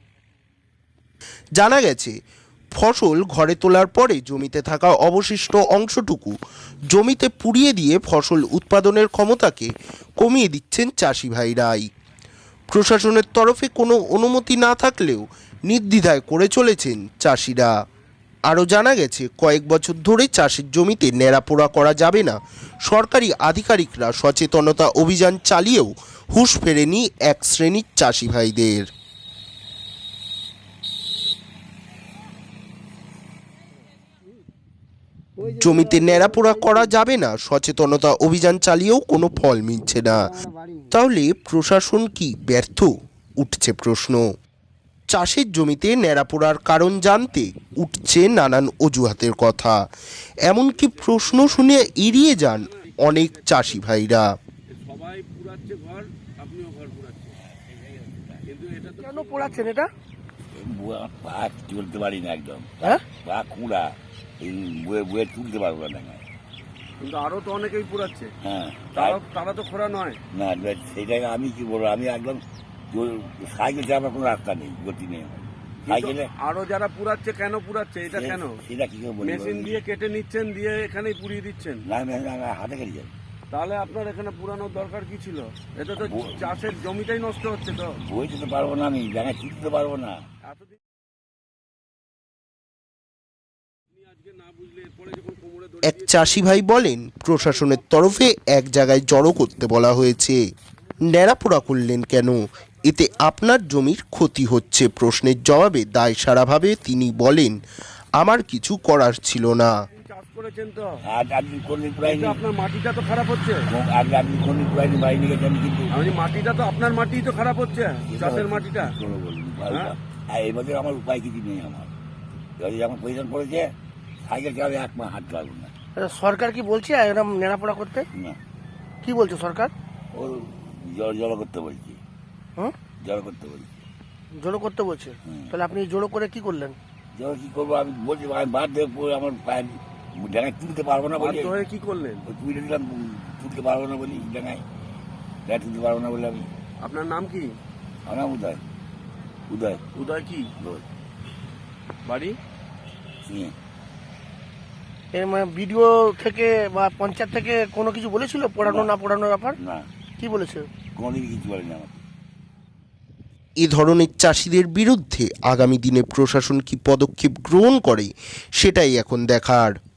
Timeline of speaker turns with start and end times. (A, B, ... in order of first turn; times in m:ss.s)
0:01.6-0:02.1 A
0:02.8-0:06.4 A
0:06.9-0:11.8 A
0:12.7-0:17.7 A
0:18.5-0:22.4 A
0:22.9-0:28.9 A
0:35.4-0:40.3 A
0:40.9-0:44.2 A
0:45.1-0:49.8 A
0:50.5-0:54.3 A
0:50.8-0:53.8 B
0:54.7-0:57.4 B
0:57.6-0:58.4 C
0:58.5-0:59.8 B
0:59.0-0:59.9 D
1:00.5-1:02.7 C
1:03.2-1:06.2 C
1:07.0-1:08.3 B
1:08.4-1:09.2 C
1:09.0-1:10.2 B
1:10.3-1:16.3 C
1:15.8-1:18.6 B
1:18.1-1:19.8 C
1:19.2-1:21.8 B
1:21.8-1:23.1 C
1:23.5-1:28.0 B
1:26.0-1:26.5 C
1:28.0-1:30.2 C
1:30.4-1:30.8 B
1:34.0-1:36.6 B
1:35.8-1:40.4 A
1:41.1-1:47.6 A
1:48.2-1:49.7 A
1:50.0-1:51.0 B
1:51.0-1:52.4 C
1:52.0-1:53.7 B
1:53.7-1:55.9 C
1:55.9-1:58.9 B
1:58.1-2:01.9 C
1:59.7-2:00.0 B
2:02.6-2:03.7 C
2:04.2-2:05.7 C
2:06.0-2:08.1 D
2:09.0-2:09.7 D
2:10.1-2:12.0 C
2:13.0-2:13.7 C
2:14.3-2:16.8 D
2:15.2-2:15.5 C
2:17.2-2:21.5 C
2:21.2-2:22.3 B
2:22.3-2:24.6 C
2:25.5-2:26.5 C
2:26.8-2:27.6 B
2:28.1-2:28.6 C
2:29.5-2:29.8 C
2:29.9-2:30.5 B
2:30.6-2:30.8 C
2:32.0-2:32.4 B
2:33.3-2:33.5 C
2:35.1-2:39.6 D
2:38.6-2:38.9 C
2:39.6-2:39.9 C
2:40.2-2:40.7 D
2:41.0-2:42.0 C
2:43.6-2:49.8 A